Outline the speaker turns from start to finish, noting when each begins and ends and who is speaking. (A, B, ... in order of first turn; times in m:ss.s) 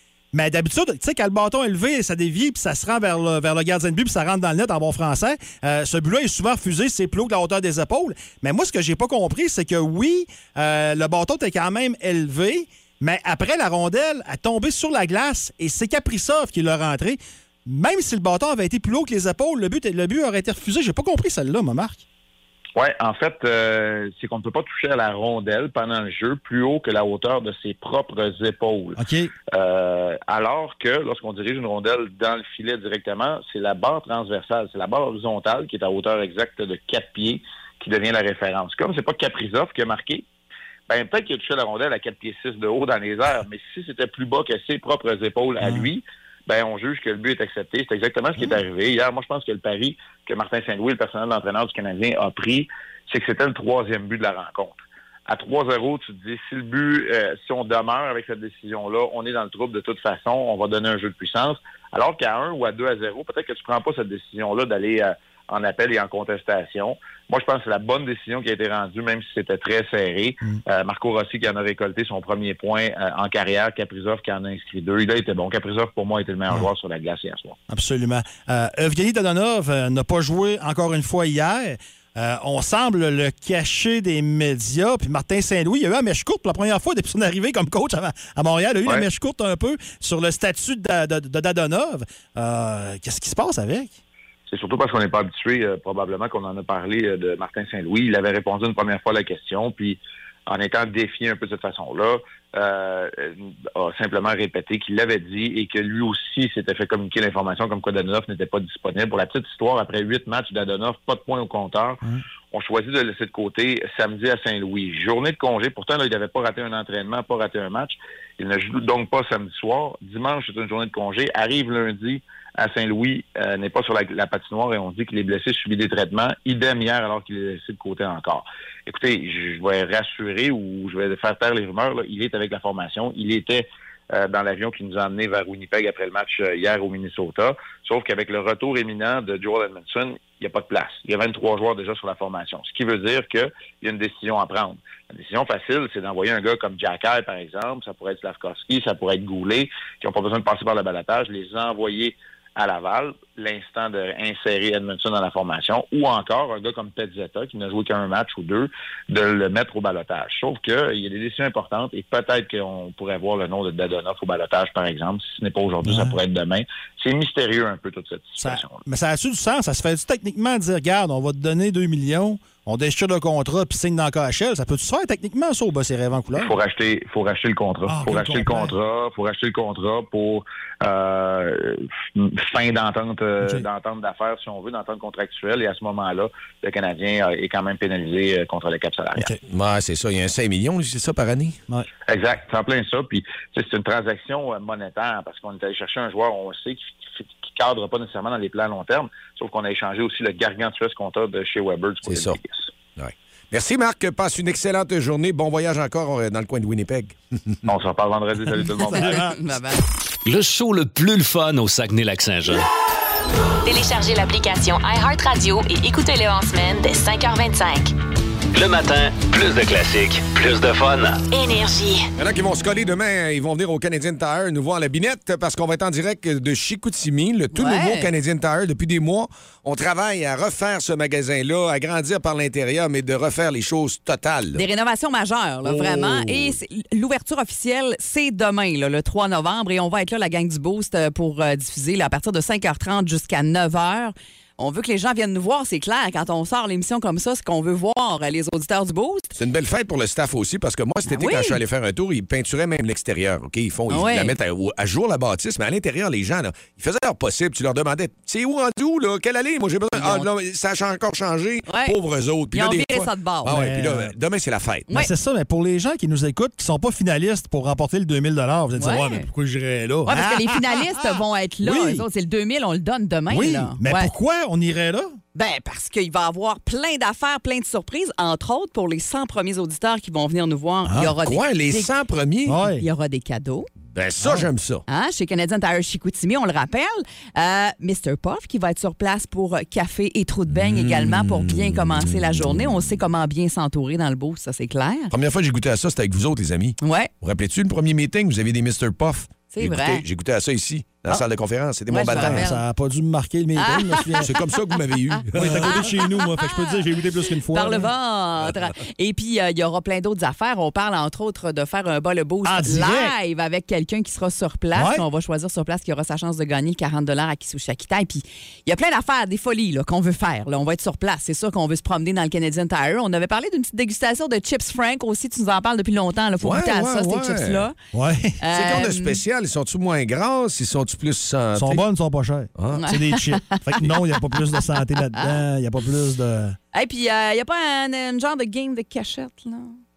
0:00.3-0:22.0 A
0:22.8-0:29.0 B
0:29.0-0:29.3 A
0:29.5-0:40.2 B
0:40.9-0:54.8 B
0:45.6-0:45.9 A
0:55.3-1:17.6 B
1:17.7-1:34.0 A
1:34.5-1:52.0 B
1:52.5-2:48.8 B
2:45.8-2:46.2 A
2:48.4-2:56.6 A
2:56.4-3:09.3 B
2:57.8-2:58.8 A
3:03.4-3:03.7 A
3:09.4-3:11.6 C
3:12.1-3:22.7 B
3:22.0-3:22.4 C
3:23.0-3:27.2 C
3:27.7-3:29.3 B
3:28.8-3:29.4 A
3:28.9-3:29.8 D
3:30.2-3:32.7 E
3:33.6-3:37.9 F
3:38.5-3:41.2 E
3:41.3-3:42.1 F
3:42.2-3:54.6 C
3:47.5-3:48.1 D
3:54.5-4:09.3 D
3:55.6-3:56.6 C
4:09.4-4:24.9 C
4:11.0-4:11.6 D
4:13.9-4:14.3 D
4:19.9-4:20.3 D
4:21.7-4:22.0 D
4:22.5-4:23.5 D
4:23.5-4:24.1 A
4:24.9-4:32.0 A
4:28.8-4:29.3 D
4:30.0-4:34.1 D
4:33.3-4:35.2 A
4:35.3-4:41.9 D
4:40.8-4:41.1 A
4:41.2-4:42.7 C
4:42.4-4:42.8 A
4:42.8-4:43.7 D
4:43.8-4:44.8 C
4:44.2-4:44.5 A
4:44.9-4:55.1 D
4:50.5-4:53.0 C
4:55.1-5:02.4 C
4:56.8-4:57.1 D
4:59.5-5:00.0 D
5:01.9-5:02.6 D
5:02.0-5:04.3 A
5:03.6-5:04.4 D
5:04.2-5:05.8 C
5:05.3-5:07.9 A
5:05.4-5:06.8 D
5:07.5-5:27.8 D
5:12.4-5:13.1 A
5:14.7-5:15.0 A
5:26.4-5:27.7 C
5:27.9-5:28.4 A
5:28.4-5:29.2 D
5:28.5-5:31.8 C
5:31.5-5:36.6 A
5:32.6-5:32.8 C
5:32.8-5:34.6 D
5:36.7-5:39.8 D